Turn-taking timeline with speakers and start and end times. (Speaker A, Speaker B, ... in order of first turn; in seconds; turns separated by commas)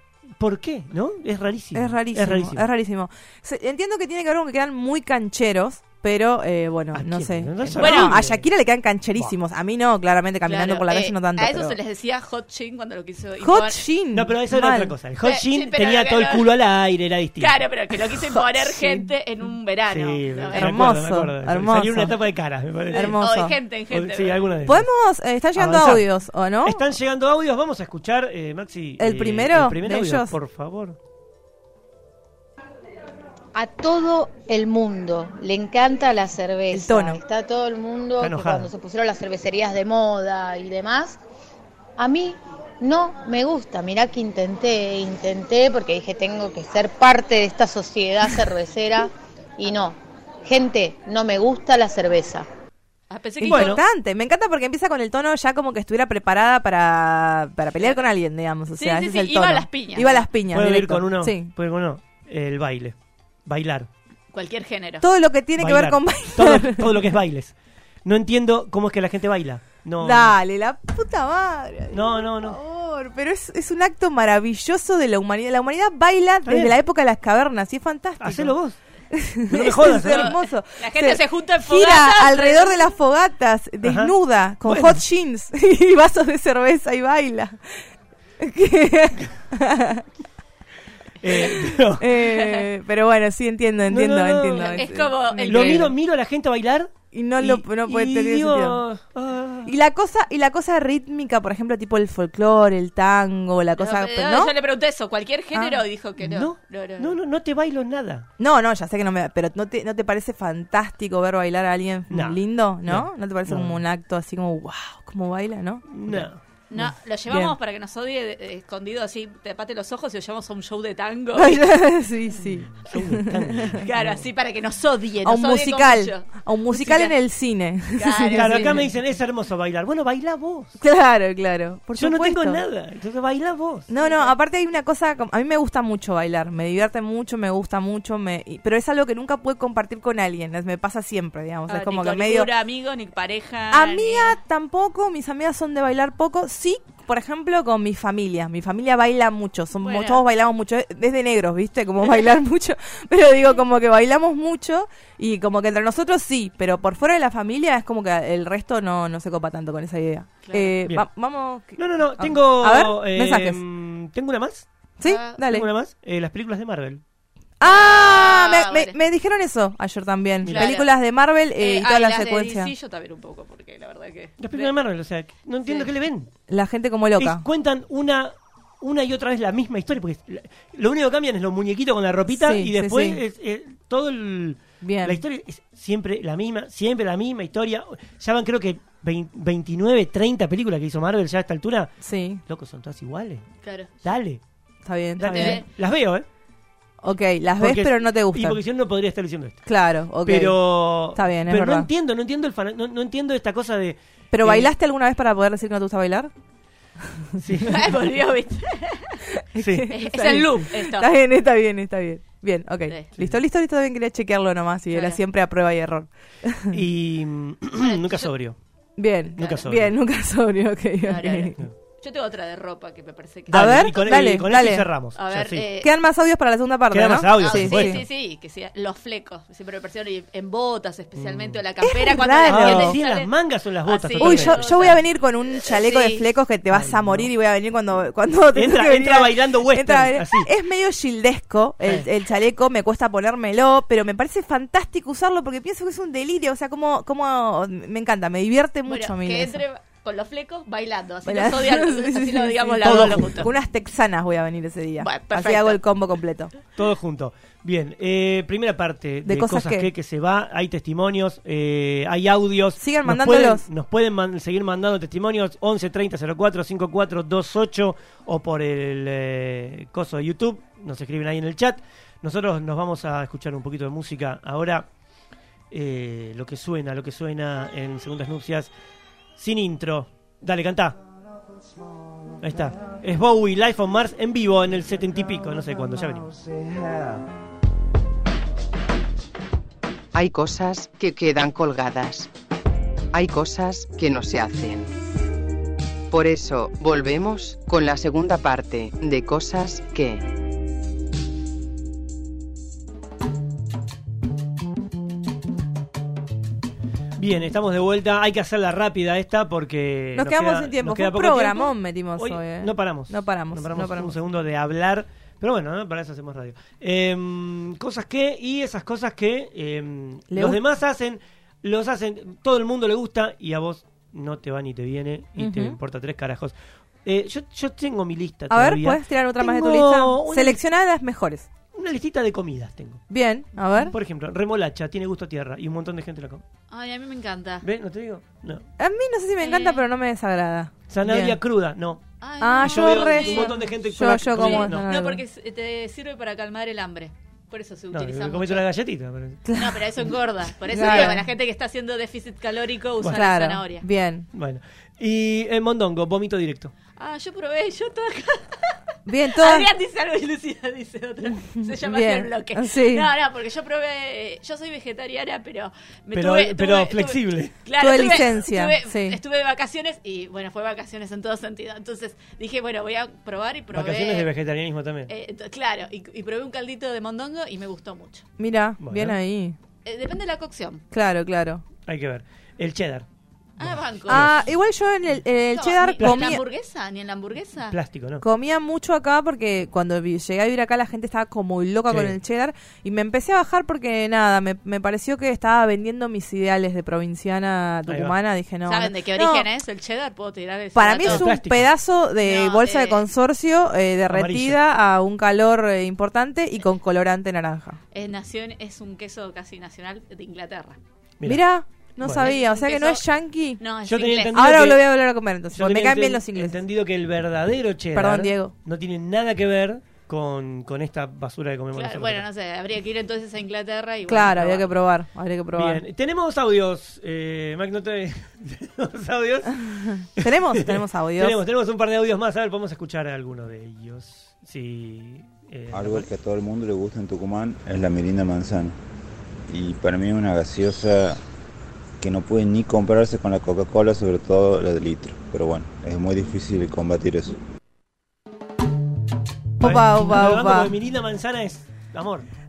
Speaker A: 0.4-2.7, Speaker B: 1.7-11.8, Speaker A: 6.9-8.4, Speaker C: 7.8-8.2, Speaker C: 10.4-13.8, Speaker B: 13.4-14.9, Speaker A: 14.1-17.6, Speaker C: 15.2-16.5, Speaker C: 17.4-20.9, Speaker B: 18.3-19.1, Speaker A: 19.9-23.2, Speaker B: 20.5-22.2, Speaker B: 22.9-23.6, Speaker C: 22.9-24.5, Speaker A: 23.9-24.9, Speaker B: 24.6-26.8, Speaker A: 25.6-26.1, Speaker A: 26.6-31.0, Speaker B: 29.0-30.3, Speaker D: 33.5-41.2, Speaker B: 36.7-37.2, Speaker A: 38.2-38.7, Speaker D: 42.0-52.5, Speaker C: 53.1-53.8, Speaker B: 53.4-61.5, Speaker A: 53.4-53.8, Speaker C: 58.8-60.3, Speaker A: 60.5-63.9, Speaker C: 64.3-65.0, Speaker B: 65.0-67.0, Speaker A: 65.6-67.5, Speaker A: 68.0-70.3, Speaker B: 70.0-78.5, Speaker A: 71.9-72.6, Speaker A: 76.5-76.7, Speaker A: 78.2-78.8, Speaker B: 79.1-87.8, Speaker A: 79.4-80.4, Speaker C: 79.9-82.8, Speaker A: 83.8-85.0, Speaker B: 88.4-90.0, Speaker A: 91.2-92.3, Speaker B: 92.0-95.9, Speaker C: 92.3-92.6, Speaker A: 93.9-99.8, Speaker C: 94.5-95.9, Speaker B: 97.1-98.8, Speaker B: 99.6-104.5, Speaker C: 103.8-107.2, Speaker B: 105.5-105.8, Speaker A: 106.2-108.3, Speaker B: 108.4-117.5, Speaker A: 112.1-113.8, Speaker A: 115.9-116.4, Speaker C: 116.7-121.6, Speaker B: 121.3-123.7, Speaker A: 122.6-124.3, Speaker C: 123.8-127.1, Speaker B: 125.2-128.9, Speaker C: 127.9-128.9, Speaker A: 128.3-130.8, Speaker B: 130.8-132.6, Speaker A: 131.9-133.9, Speaker B: 133.9-142.5, Speaker C: 134.0-134.3, Speaker C: 141.7-144.4, Speaker B: 143.7-163.6, Speaker C: 149.8-150.2, Speaker C: 160.4-160.8, Speaker A: 161.8-164.7, Speaker B: 165.0-165.7, Speaker C: 165.0-165.4, Speaker A: 165.4-167.0, Speaker B: 167.6-172.7, Speaker C: 167.6-168.9, Speaker A: 170.4-170.7, Speaker C: 170.5-170.9, Speaker C: 171.6-174.7, Speaker A: 174.4-176.3, Speaker C: 175.7-175.9, Speaker B: 176.5-177.4, Speaker A: 177.2-193.5, Speaker B: 182.3-183.2, Speaker B: 184.8-185.2, Speaker B: 192.0-192.4, Speaker C: 193.6-193.9, Speaker A: 194.0-194.4, Speaker B: 194.8-195.6, Speaker A: 195.2-196.2, Speaker C: 195.2-195.7, Speaker B: 197.0-198.6, Speaker A: 197.6-199.7, Speaker B: 199.7-201.9, Speaker A: 200.2-204.7, Speaker B: 204.3-206.3, Speaker A: 207.4-208.0, Speaker C: 207.6-209.2, Speaker B: 209.5-216.8, Speaker A: 209.6-209.9, Speaker C: 209.9-211.1, Speaker C: 212.9-213.1, Speaker C: 214.9-215.2, Speaker A: 216.7-218.6, Speaker C: 217.8-218.3, Speaker B: 219.0-221.6, Speaker A: 219.4-220.0, Speaker C: 221.0-224.3, Speaker A: 223.5-225.7, Speaker B: 223.5-224.9, Speaker C: 225.1-225.9, Speaker B: 225.8-228.0, Speaker A: 226.9-228.0, Speaker C: 227.3-235.0, Speaker A: 231.2-231.6, Speaker B: 231.8-233.0, Speaker A: 232.4-235.0, Speaker B: 234.2-249.6, Speaker C: 235.6-236.2, Speaker A: 236.7-237.3, Speaker A: 238.5-240.5, Speaker C: 248.9-253.5, Speaker B: 251.2-256.5, Speaker A: 252.8-253.5, Speaker C: 255.0-255.8, Speaker A: 256.7-274.9, Speaker B: 259.2-259.9, Speaker B: 262.8-263.6, Speaker A: 275.7-278.7, Speaker A: 279.4-281.0, Speaker A: 282.4-286.3, Speaker E: 290.1-292.3, Speaker E: 293.1-294.9, Speaker E: 296.1-300.2, Speaker A: 307.2-326.5, Speaker B: 310.1-314.1, Speaker B: 320.3-320.6, Speaker B: 325.4-325.8, Speaker A: 327.0-330.6, Speaker B: 328.5-331.5, Speaker A: 331.7-333.0, Speaker B: 333.1-333.9, Speaker C: 333.6-333.9, Speaker A: 333.9-336.4, Speaker C: 336.7-337.6, Speaker A: 337.6-338.6, Speaker B: 338.8-341.4, Speaker C: 339.4-339.8, Speaker A: 340.9-342.0, Speaker C: 342.2-348.6, Speaker B: 342.4-345.2, Speaker A: 342.6-344.9, Speaker A: 347.9-350.1, Speaker B: 349.4-349.8, Speaker C: 349.5-353.9, Speaker B: 350.7-351.2, Speaker A: 350.7-351.2, Speaker B: 353.1-354.3, Speaker A: 354.3-356.7, Speaker C: 356.9-374.3, Speaker B: 359.1-359.7, Speaker B: 361.4-363.1, Speaker A: 366.1-368.3, Speaker B: 367.8-369.2, Speaker A: 373.7-375.1, Speaker C: 375.1-378.3, Speaker B: 378.4-379.6, Speaker A: 378.8-379.2, Speaker C: 379.8-380.8, Speaker B: 380.9-381.6, Speaker A: 381.9-383.1, Speaker A: 383.6-384.4, Speaker C: 383.6-384.4, Speaker B: 384.1-386.4, Speaker C: 385.5-387.8, Speaker A: 386.0-386.4, Speaker A: 387.7-388.2, Speaker B: 388.2-399.5, Speaker A: 391.9-392.2, Speaker A: 397.9-398.1, Speaker C: 398.6-401.3, Speaker B: 400.7-407.8, Speaker A: 401.0-401.7, Speaker C: 402.2-403.0, Speaker A: 404.1-404.6, Speaker C: 407.9-410.8, Speaker B: 411.2-413.6, Speaker A: 412.0-412.3, Speaker C: 412.1-413.0, Speaker C: 413.6-414.5, Speaker A: 413.9-414.9, Speaker B: 414.3-416.6, Speaker A: 415.5-422.2, Speaker B: 417.9-418.5, Speaker C: 421.7-424.7, Speaker B: 424.1-425.8, Speaker A: 425.5-436.1, Speaker B: 429.6-431.4, Speaker F: 435.7-438.8, Speaker F: 439.5-441.2, Speaker F: 442.0-447.4, Speaker B: 449.6-450.7, Speaker A: 449.6-452.3